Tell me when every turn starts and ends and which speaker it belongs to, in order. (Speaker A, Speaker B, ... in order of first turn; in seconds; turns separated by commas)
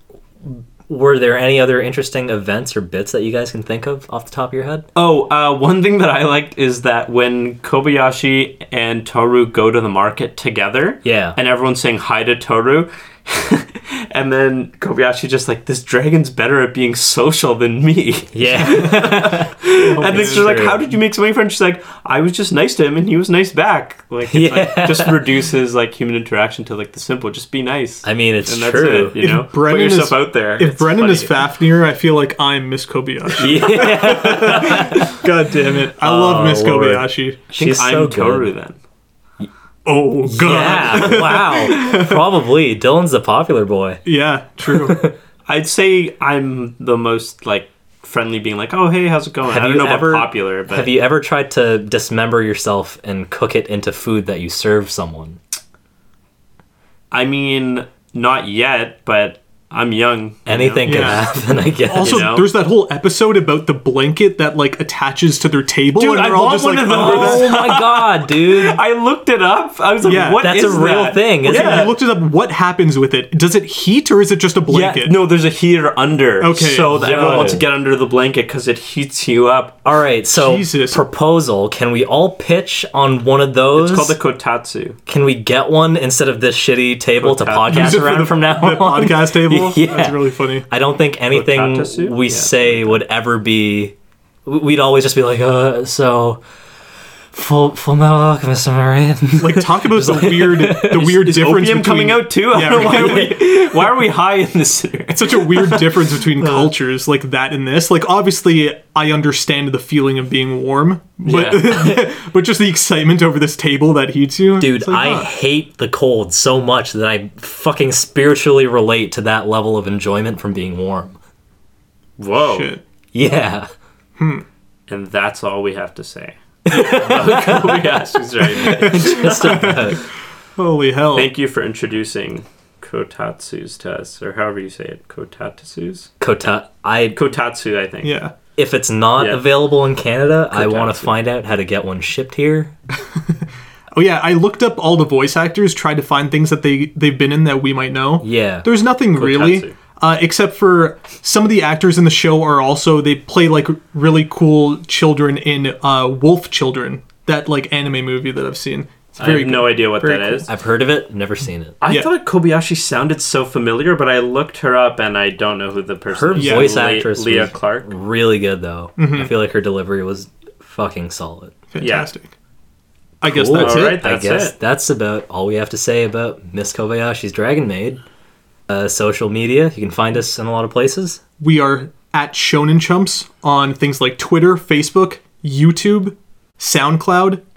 Speaker A: 0.4-4.8, Speaker B: 5.0-31.4, Speaker A: 11.0-11.4, Speaker A: 18.3-20.8, Speaker C: 19.9-20.6, Speaker A: 24.3-25.2, Speaker A: 28.0-29.2, Speaker C: 29.2-37.4, Speaker A: 33.4-35.1, Speaker A: 36.0-38.5, Speaker B: 37.5-38.8, Speaker C: 39.9-42.3, Speaker A: 40.2-44.0, Speaker B: 40.5-41.0, Speaker C: 44.0-45.0, Speaker A: 44.7-45.2, Speaker B: 45.5-50.9, Speaker A: 49.4-55.4, Speaker B: 57.1-61.3, Speaker A: 60.5-62.3, Speaker C: 60.9-61.3, Speaker C: 61.8-67.5, Speaker B: 62.0-62.5, Speaker B: 66.0-71.9, Speaker A: 66.9-68.8, Speaker C: 70.0-70.4, Speaker A: 70.4-71.9, Speaker C: 71.4-75.2, Speaker B: 74.7-79.8, Speaker C: 76.4-77.6, Speaker A: 76.9-77.6, Speaker A: 79.8-84.2, Speaker C: 80.3-81.0, Speaker B: 83.8-85.0, Speaker A: 85.1-93.9, Speaker B: 87.2-88.2, Speaker C: 87.7-90.7, Speaker B: 91.3-93.0, Speaker A: 94.5-96.4, Speaker A: 97.3-101.3, Speaker C: 99.4-103.4, Speaker B: 101.0-106.7, Speaker A: 102.7-103.3, Speaker C: 105.1-115.3, Speaker B: 111.2-111.7, Speaker A: 111.3-112.1, Speaker A: 114.6-121.2, Speaker B: 122.2-122.7, Speaker C: 122.4-122.8, Speaker A: 123.1-123.7, Speaker C: 124.2-124.5, Speaker B: 124.9-129.4, Speaker A: 126.7-127.8, Speaker C: 128.6-130.0, Speaker A: 128.6-130.0, Speaker C: 130.6-131.3, Speaker B: 131.1-136.1, Speaker A: 136.2-137.2, Speaker B: 137.1-138.1, Speaker C: 138.0-138.3, Speaker A: 138.6-142.8, Speaker B: 139.2-139.4, Speaker B: 140.5-141.2, Speaker C: 143.9-160.5, Speaker A: 148.2-148.7, Speaker B: 149.1-149.8, Speaker B: 159.2-160.5, Speaker A: 160.5-161.8, Speaker B: 161.8-167.9, Speaker A: 166.1-171.6, Speaker C: 166.4-166.8, Speaker C: 169.0-169.3, Speaker C: 171.7-172.3, Speaker B: 171.8-172.1, Speaker C: 173.2-174.0, Speaker A: 173.2-178.0, Speaker B: 173.6-174.6, Speaker A: 178.7-181.2, Speaker C: 181.4-187.4